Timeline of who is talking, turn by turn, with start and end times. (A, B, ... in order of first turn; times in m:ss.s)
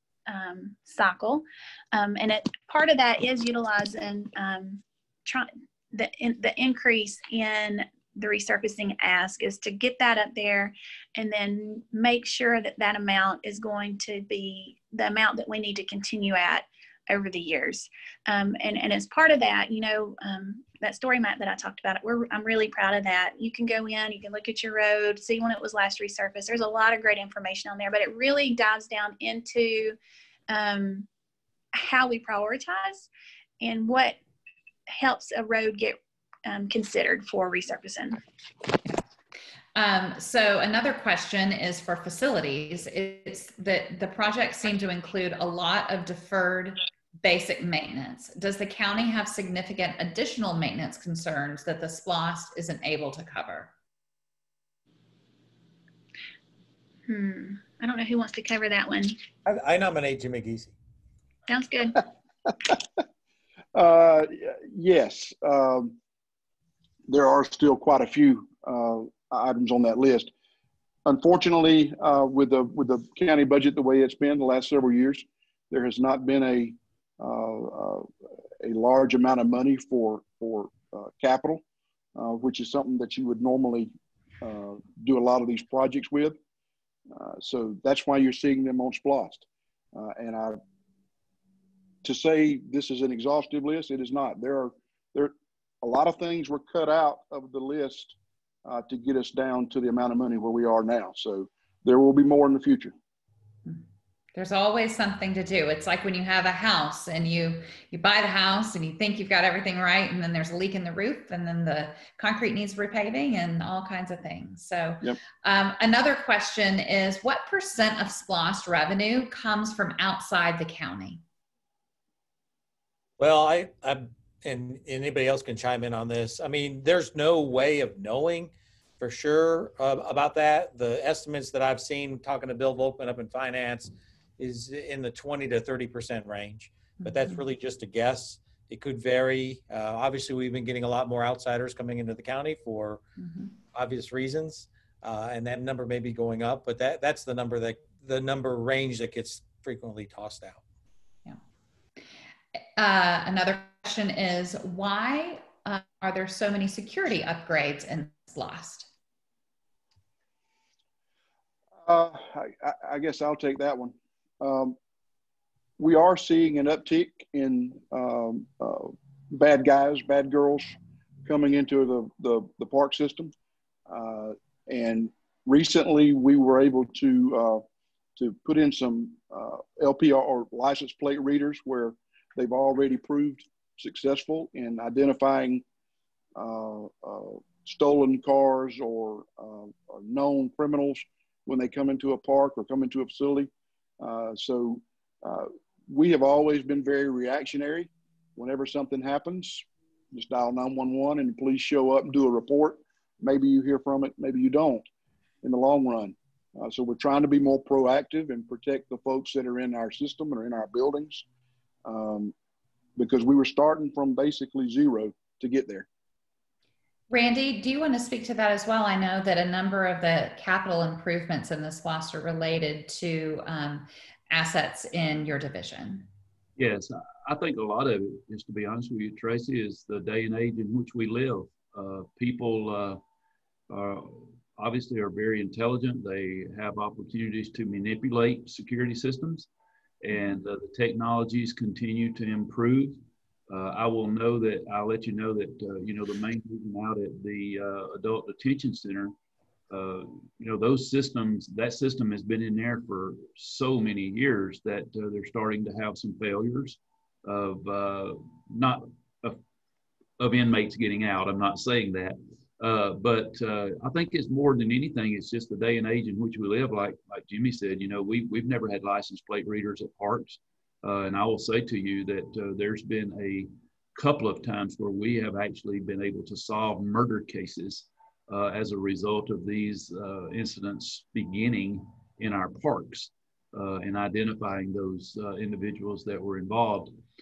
0:00.3-0:30.0 A
0:30.5-0:31.1 A
0:31.7-0:33.1 A
0:33.6-0:34.2 A
0:34.9-0:38.2 A
0:39.7-0:53.7 B
0:57.1-0:59.2 A
0:59.4-1:00.7 C
1:01.5-1:02.0 A
1:03.7-1:05.9 D
1:07.1-1:10.3 D
1:11.0-1:18.1 D
1:18.6-1:21.6 D
1:22.2-1:26.4 D
1:27.1-1:30.6 D
1:32.0-1:42.9 D
1:44.3-2:01.2 B
2:03.2-2:23.0 C
2:23.7-2:30.6 C
2:32.8-2:38.9 B
2:41.8-2:44.8 D
2:45.8-2:53.3 D
2:53.9-2:57.6 D
2:58.2-3:05.6 D
3:06.3-3:24.8 D
3:25.4-3:31.2 D
3:31.8-3:32.3 D
3:33.0-3:35.8 D
3:37.1-3:46.1 B
3:46.6-3:53.0 E
3:53.7-3:59.5 E
4:00.0-4:09.1 E
4:09.7-4:19.4 E
4:20.2-4:46.9 E